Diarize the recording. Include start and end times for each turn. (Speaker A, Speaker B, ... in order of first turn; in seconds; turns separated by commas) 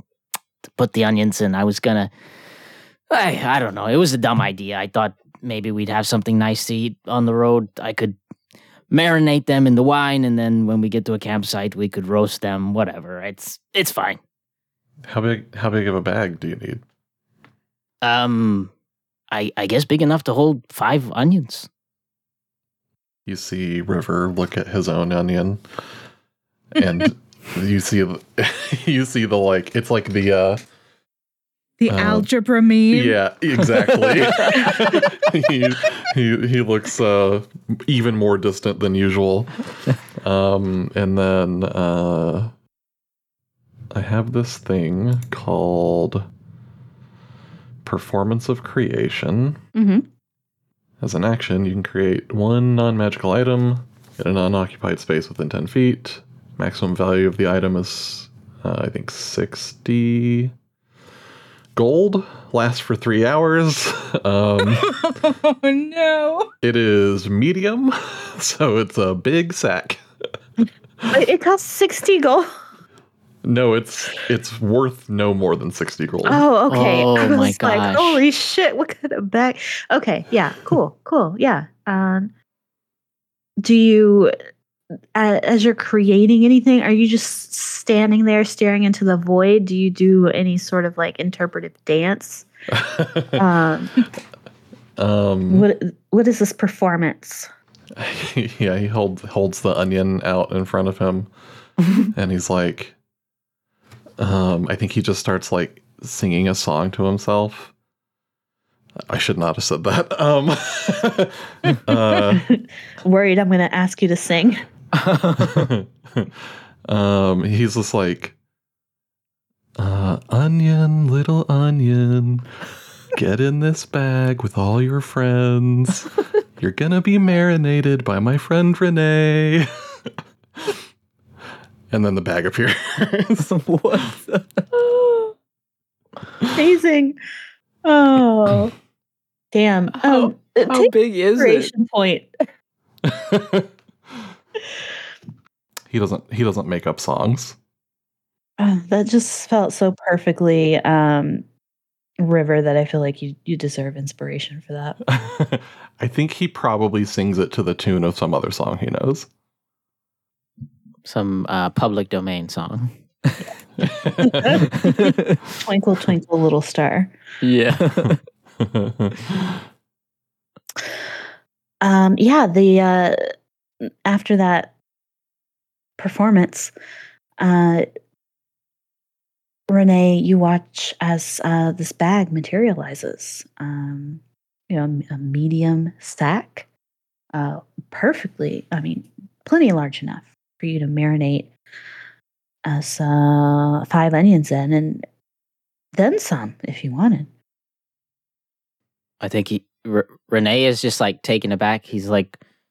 Speaker A: 0.7-2.1, Speaker A: 3.1-8.2, Speaker A: 8.9-14.2, Speaker B: 15.1-16.8, Speaker A: 18.0-18.7, Speaker A: 19.3-21.7, Speaker B: 23.3-25.6, Speaker B: 26.8-30.6, Speaker C: 31.8-33.2, Speaker B: 31.9-32.3, Speaker B: 32.9-42.5, Speaker A: 34.1-34.8, Speaker B: 43.9-46.3, Speaker B: 47.8-49.6, Speaker D: 49.8-50.1, Speaker B: 51.0-60.5, Speaker B: 61.8-65.0, Speaker C: 64.7-66.5, Speaker B: 66.6-70.0, Speaker D: 71.1-72.5, Speaker B: 73.4-76.5, Speaker D: 76.2-82.3, Speaker A: 76.7-78.2, Speaker D: 83.6-84.3, Speaker D: 85.2-92.5, Speaker B: 92.7-93.4, Speaker D: 93.4-94.0, Speaker B: 95.0-95.7, Speaker D: 95.5-97.5, Speaker B: 98.0-101.3, Speaker B: 102.0-103.0, Speaker B: 104.2-107.7, Speaker B: 109.1-112.5, Speaker D: 112.3-114.6, Speaker A: 115.0-115.7, Speaker B: 115.4-116.3, Speaker B: 116.9-118.3, Speaker B: 119.8-122.6, Speaker B: 123.1-129.7, Speaker B: 131.9-133.5, Speaker A: 133.4-134.6, Speaker D: 134.9-135.3, Speaker D: 136.5-137.2, Speaker D: 137.8-138.7, Speaker D: 139.5-142.3, Speaker A: 139.9-141.7, Speaker B: 143.1-143.7, Speaker B: 145.9-147.6, Speaker D: 148.6-151.5, Speaker D: 152.2-155.0, Speaker B: 155.1-159.3, Speaker A: 161.1-163.4, Speaker B: 163.8-164.6, Speaker D: 164.2-165.1, Speaker A: 164.7-165.5, Speaker D: 165.6-167.2, Speaker A: 167.4-168.2, Speaker B: 168.6-169.5, Speaker D: 170.8-171.1, Speaker D: 171.8-173.2, Speaker D: 173.8-174.8, Speaker D: 176.0-176.7, Speaker D: 177.4-177.9, Speaker D: 179.7-186.7, Speaker D: 187.3-191.5, Speaker D: 192.7-195.1, Speaker D: 195.9-197.3, Speaker A: 199.2-202.4